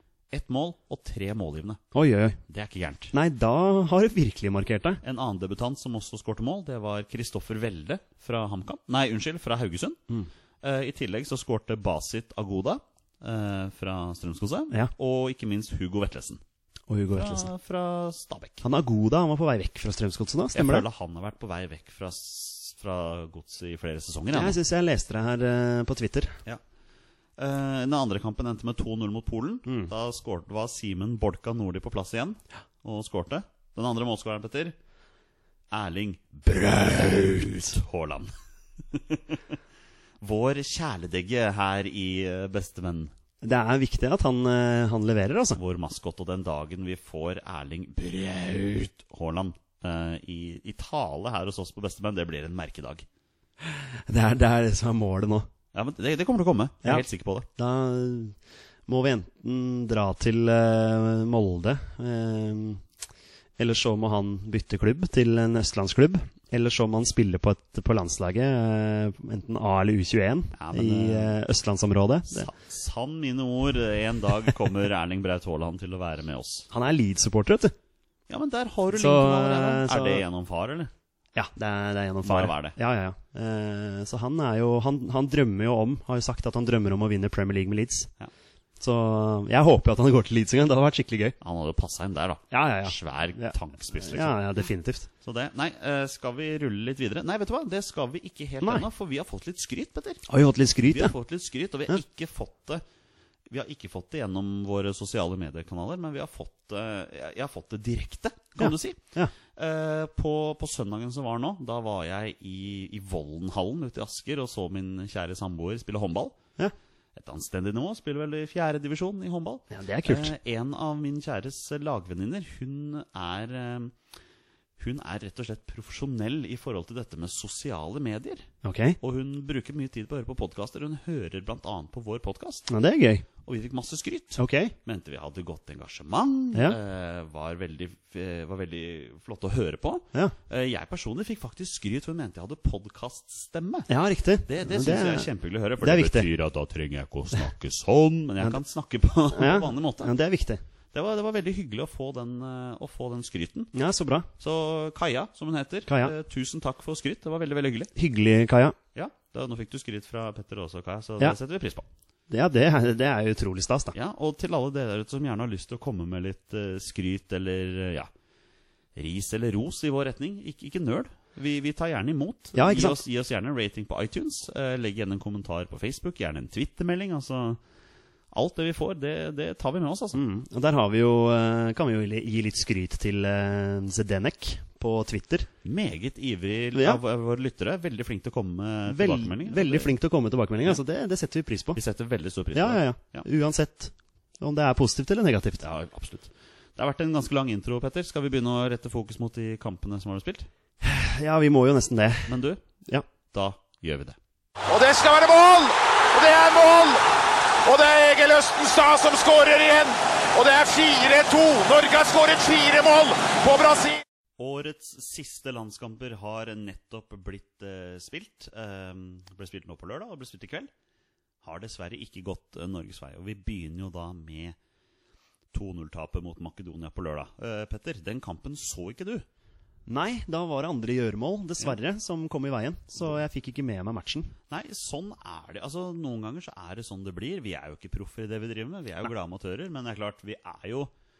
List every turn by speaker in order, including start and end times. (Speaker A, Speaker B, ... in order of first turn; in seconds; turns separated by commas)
Speaker A: 0.3-1.8, Speaker B: 1.9-2.4, Speaker A: 2.5-3.1, Speaker B: 3.1-5.0, Speaker A: 5.0-10.0, Speaker A: 10.6-16.4, Speaker B: 16.9-17.5, Speaker A: 17.1-18.6, Speaker B: 18.6-20.9, Speaker A: 20.5-24.6, Speaker B: 24.3-26.4, Speaker A: 27.4-34.8, Speaker B: 29.7-29.9, Speaker A: 35.7-38.3, Speaker B: 37.1-37.3, Speaker A: 38.9-39.6, Speaker A: 40.2-43.1, Speaker B: 43.4-45.6, Speaker A: 45.6-53.1, Speaker B: 53.6-55.5, Speaker A: 55.7-57.5, Speaker B: 57.6-62.8, Speaker B: 63.6-72.5, Speaker A: 70.5-71.4, Speaker A: 72.3-76.7, Speaker B: 76.7-77.7, Speaker A: 78.3-80.9, Speaker B: 78.9-80.2, Speaker B: 81.3-88.1, Speaker A: 82.2-82.8, Speaker B: 88.8-91.4, Speaker A: 91.4-94.4, Speaker B: 92.5-95.1, Speaker A: 95.2-100.2, Speaker B: 100.3-101.1, Speaker A: 100.8-102.8, Speaker A: 103.5-109.0, Speaker B: 108.6-109.3, Speaker A: 109.5-116.4, Speaker A: 117.2-124.0, Speaker B: 119.7-120.3, Speaker A: 124.8-128.5, Speaker B: 128.6-129.0, Speaker A: 129.0-132.7, Speaker B: 132.7-133.2, Speaker A: 133.4-143.9, Speaker B: 134.4-134.8, Speaker B: 143.9-146.3, Speaker A: 144.5-150.1, Speaker B: 149.3-150.6, Speaker A: 150.9-153.7, Speaker B: 153.7-154.3, Speaker A: 154.4-157.9, Speaker B: 155.9-156.1, Speaker B: 157.9-158.8, Speaker A: 158.9-161.9, Speaker B: 162.3-163.9, Speaker A: 163.9-168.1, Speaker A: 168.9-177.6, Speaker B: 172.6-173.0, Speaker A: 178.3-180.2, Speaker B: 180.1-185.5, Speaker A: 185.6-189.9, Speaker B: 186.7-187.0, Speaker B: 188.9-191.8, Speaker A: 191.8-193.3, Speaker B: 192.5-195.7, Speaker A: 195.6-200.5, Speaker B: 200.8-203.1, Speaker A: 202.3-202.6, Speaker A: 203.3-204.2, Speaker C: 204.7-207.0, Speaker C: 207.7-214.0, Speaker A: 214.4-220.7, Speaker A: 221.4-224.6, Speaker A: 225.5-229.3, Speaker B: 229.9-234.3, Speaker A: 234.5-240.9